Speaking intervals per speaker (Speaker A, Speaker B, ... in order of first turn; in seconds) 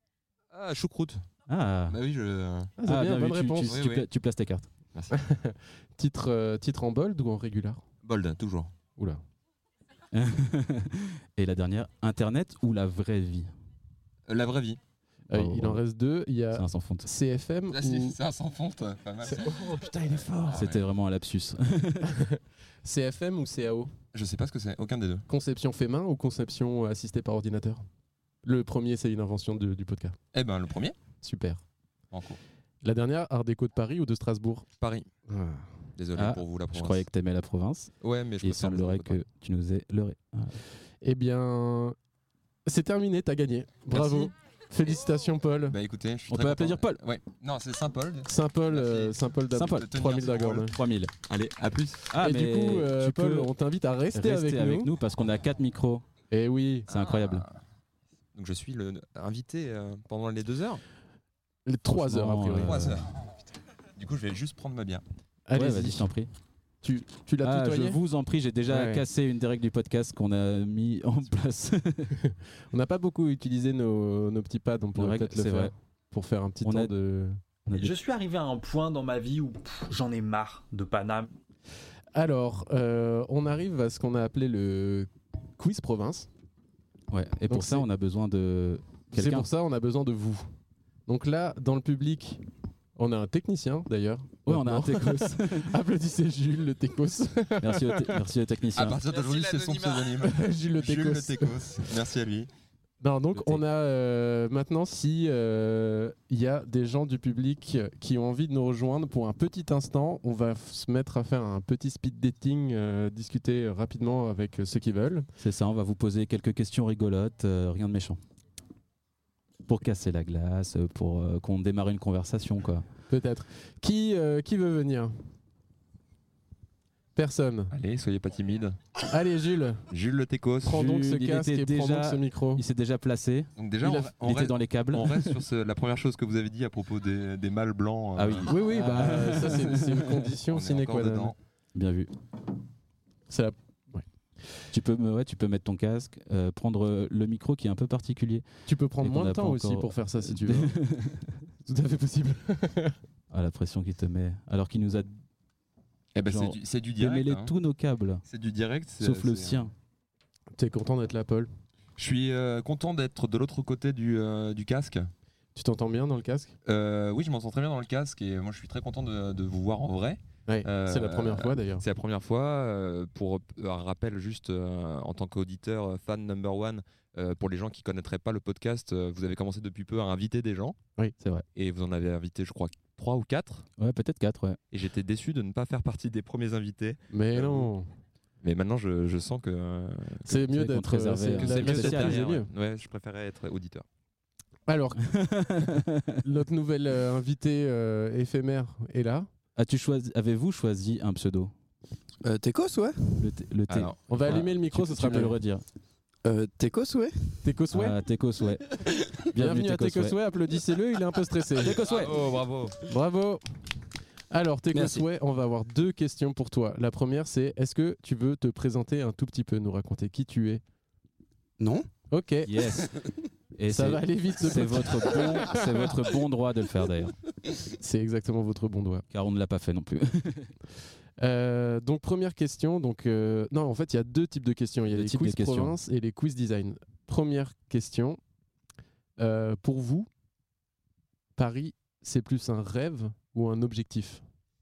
Speaker A: 0.5-1.2, 1.9-2.8, 3.7-4.1, 8.0-8.7, 14.3-14.8, 17.7-19.8, 20.4-20.8, 24.1-25.2, 30.3-31.0, 32.1-32.4, 34.8-35.1, 36.0-37.0, 38.0-39.2, 43.9-44.3, 45.7-50.8, 51.3-52.1, 56.9-57.6, 58.4-60.8, 62.6-63.1, 64.0-65.0, 98.8-102.5, 127.7-128.8, 129.9-130.8, 133.6-138.5, 140.5-141.3, 156.1-157.5, 158.3-159.7, 162.0-165.1, 166.7-180.8, 181.6-183.7, 184.7-187.7, 188.4-190.4, 191.3-193.8, 203.7-204.1, 211.8-212.8
Speaker B: 1.5-2.0, 2.9-4.7, 10.1-13.5, 15.3-15.8, 16.5-17.1, 20.5-22.1, 36.2-40.6, 46.3-47.0, 49.5-49.9, 50.7-51.1, 52.1-53.5, 54.1-56.0, 56.9-57.5, 61.9-62.9, 65.5-66.3, 67.4-72.2, 75.0-75.7, 76.6-76.9, 77.7-78.0, 87.1-89.5, 94.5-95.7, 97.6-99.0, 103.3-103.6, 115.4-118.2, 119.7-122.9, 130.7-135.4, 138.2-140.1, 141.8-142.1, 144.7-148.4, 149.0-151.3, 153.3-155.2, 156.2-158.2, 159.0-159.7, 183.8-184.6, 190.5-192.3, 195.1-196.2, 199.6-201.5, 203.2-205.6, 207.7-210.2, 211.6-212.2, 222.5-222.9, 223.6-227.2, 229.1-230.5, 234.9-235.8
Speaker C: 2.8-3.8, 5.1-7.8, 9.0-9.2, 15.3-18.2, 19.2-20.6, 22.0-23.9, 25.3-27.9, 28.4-30.2, 31.2-31.6, 32.8-34.7, 35.3-35.7, 41.0-42.0, 42.7-45.8, 48.3-50.8, 52.1-54.9, 56.3-56.9, 61.7-63.0, 65.5-66.1, 66.8-68.0, 68.7-69.0, 72.2-77.4, 82.1-86.3, 87.5-87.9, 89.1-90.5, 91.1-92.4, 93.0-98.2, 100.1-101.8, 103.0-115.3, 123.1-125.2, 127.2-127.7, 129.1-129.8, 130.6-132.6, 133.8-134.1, 138.5-141.3, 143.3-144.1, 148.7-150.8, 151.7-153.0, 160.6-161.5, 165.6-166.5, 170.5-171.8, 187.1-187.9, 190.3-192.5, 194.7-195.1, 196.2-199.3, 204.1-205.4, 207.4-208.0, 209.3-211.8, 212.9-213.4, 214.3-220.6, 222.1-222.8, 223.7-225.9, 227.8-229.1, 231.2-238.2, 239.2-240.1, 241.4-244.2
Speaker D: 77.7-81.3
Speaker E: 202.2-203.3, 206.2-207.4, 214.7-215.0, 221.6-221.9